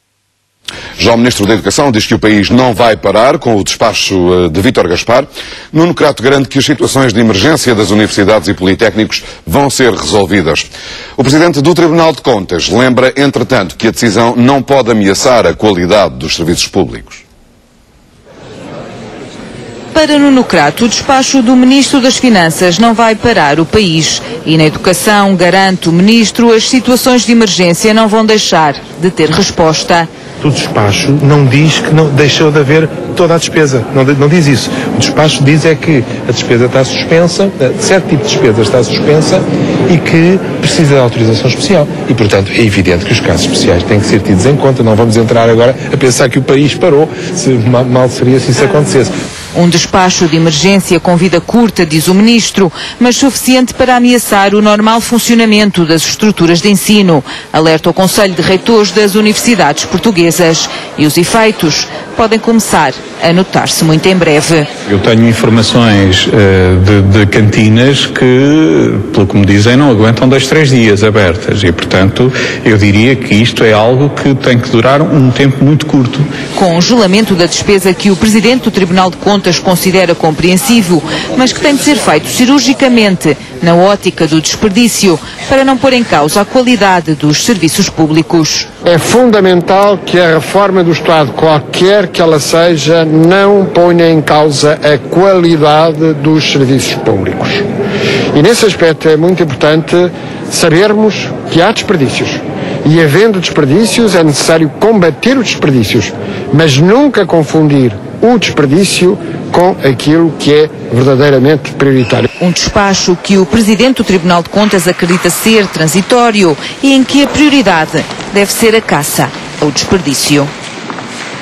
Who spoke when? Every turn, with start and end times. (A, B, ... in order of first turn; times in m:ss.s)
0:01.0-0:17.2 A
0:19.9-0:30.1 B
0:30.4-0:49.1 C
0:49.5-1:04.7 B
1:04.9-1:16.3 D
1:16.5-1:28.7 B
1:28.9-1:37.6 E
1:38.3-1:52.3 E
1:52.4-2:00.5 B